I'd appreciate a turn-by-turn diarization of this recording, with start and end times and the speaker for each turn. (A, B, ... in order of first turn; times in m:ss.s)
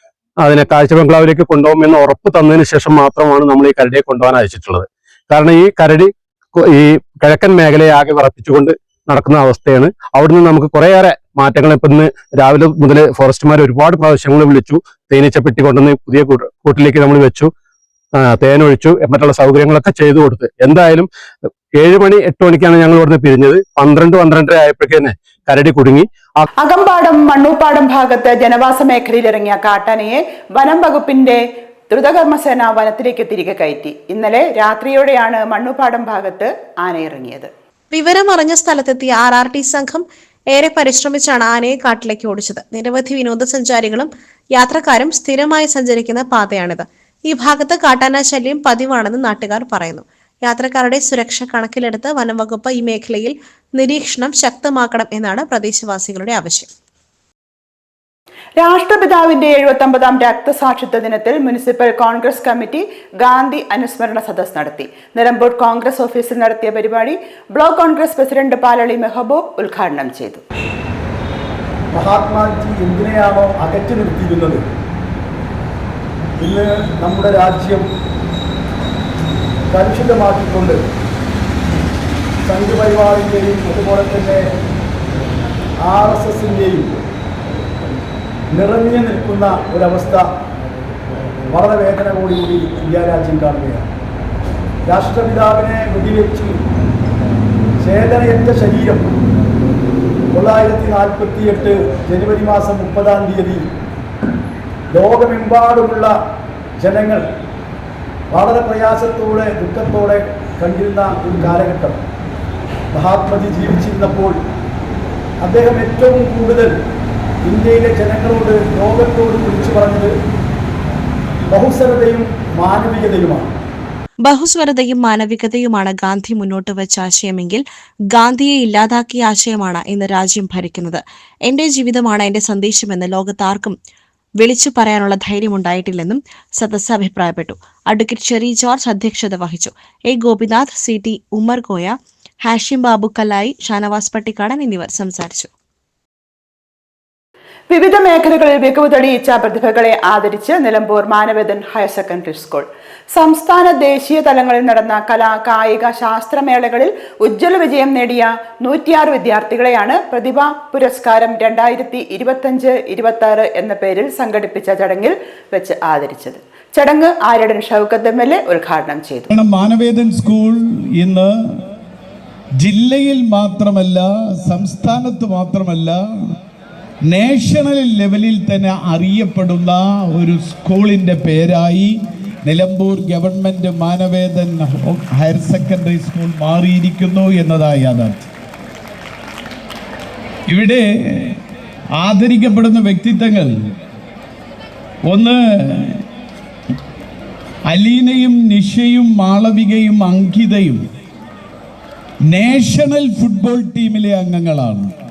0:00.4-0:17.5 A
0:18.1-0:21.1 A
0:21.7-0:26.5 A
0:26.6-0:37.5 B
0:37.9-0:56.7 C
0:58.6-1:10.4 B
1:11.9-1:14.6 D
1:16.4-1:17.8 D
1:19.7-1:20.8 D
1:22.5-1:24.4 D
1:25.8-1:26.9 D
1:28.5-1:30.3 D
1:31.5-1:33.9 D
1:34.9-1:36.6 D
1:37.8-1:39.1 D
1:40.3-1:43.6 D
1:44.9-1:46.2 D
1:46.8-1:47.2 D
1:48.3-1:52.0 D
1:52.9-1:54.4 D
1:55.4-1:56.8 D
1:57.4-2:00.1 D
2:01.5-2:03.5 D
2:04.2-2:13.8 C
2:14.4-2:25.5 C
2:27.7-2:49.3 B
2:49.3-2:51.3 E
2:52.6-2:56.0 E
2:57.1-3:08.3 E
3:10.5-3:11.4 E
3:12.0-3:13.6 E
3:15.0-3:16.0 E
3:17.7-3:20.8 E
3:22.3-3:24.9 E